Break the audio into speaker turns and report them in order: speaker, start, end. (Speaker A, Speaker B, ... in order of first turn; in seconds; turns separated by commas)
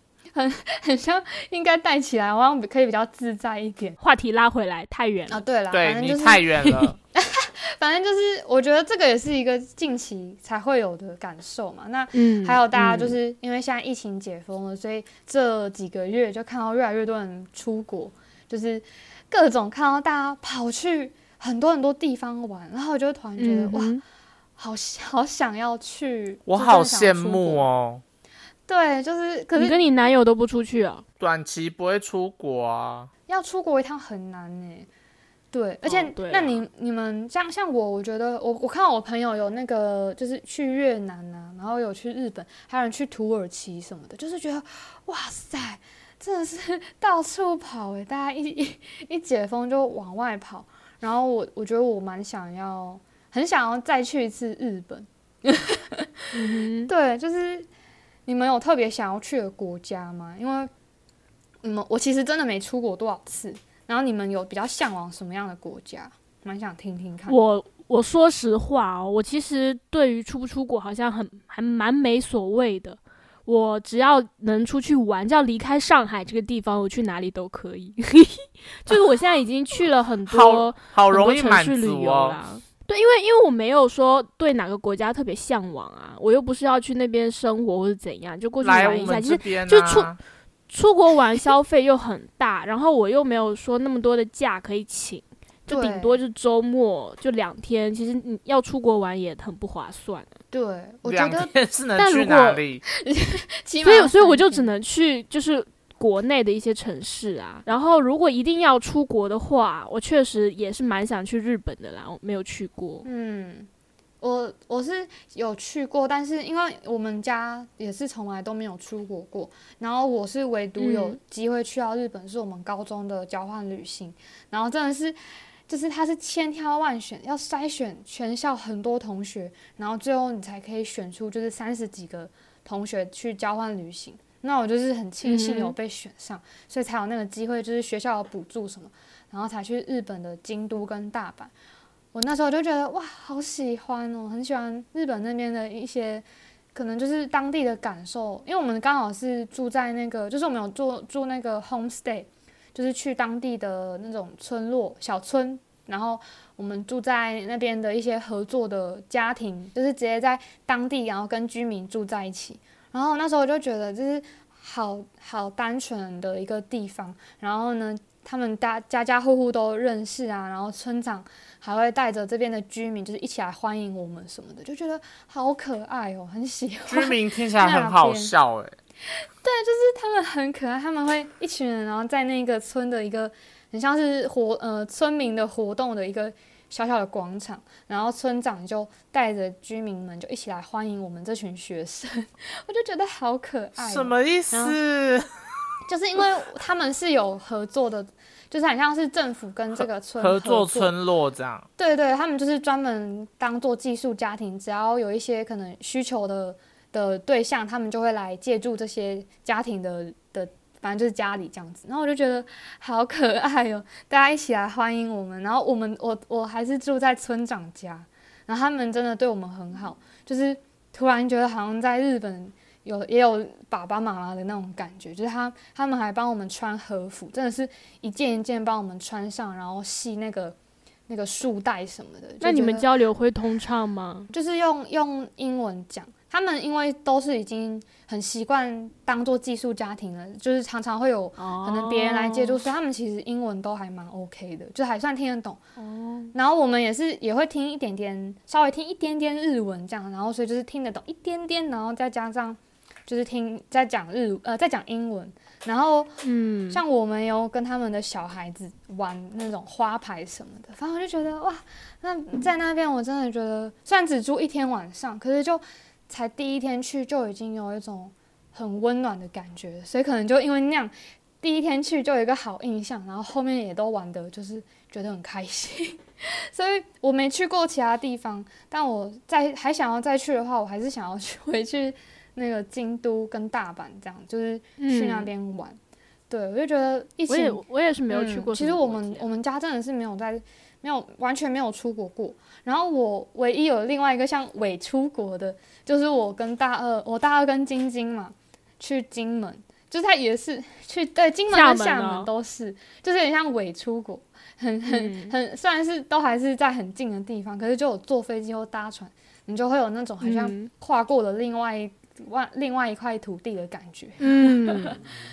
Speaker A: 0.3-4.0, Speaker B: 4.0-5.4, Speaker A: 5.3-6.5, Speaker C: 5.7-7.0, Speaker A: 7.1-23.9, Speaker B: 12.1-13.1, Speaker B: 23.4-24.0, Speaker A: 24.6-27.6, Speaker C: 26.5-28.0, Speaker A: 28.7-29.8, Speaker B: 29.5-31.0, Speaker C: 31.2-33.1, Speaker A: 33.3-34.9, Speaker A: 35.5-57.7, Speaker B: 35.8-36.6, Speaker B: 56.3-56.9, Speaker A: 58.2-60.7, Speaker A: 61.6-67.4, Speaker B: 67.3-90.1, Speaker C: 80.3-82.4, Speaker C: 88.6-90.2, Speaker B: 90.7-100.3, Speaker A: 95.7-96.2, Speaker A: 100.5-101.5, Speaker C: 101.0-102.8, Speaker B: 102.0-102.6, Speaker A: 102.9-104.7, Speaker B: 103.8-113.0, Speaker A: 113.0-113.7, Speaker A: 114.2-125.2, Speaker B: 120.8-121.2, Speaker A: 125.7-141.5, Speaker B: 135.2-135.7, Speaker A: 142.1-178.3, Speaker C: 176.9-178.8, Speaker A: 179.4-194.8, Speaker C: 193.8-195.3, Speaker A: 195.9-200.9, Speaker C: 200.2-201.7, Speaker A: 201.8-230.6, Speaker A: 231.1-232.9, Speaker B: 232.4-234.3, Speaker A: 234.3-245.6, Speaker B: 241.4-242.6, Speaker B: 245.8-246.3, Speaker A: 246.3-256.2, Speaker B: 256.2-256.8, Speaker A: 256.7-285.8, Speaker B: 284.8-285.3, Speaker A: 286.3-315.0, Speaker B: 287.3-289.2, Speaker B: 301.5-302.3, Speaker B: 304.9-305.3, Speaker B: 310.2-310.7, Speaker B: 314.2-315.0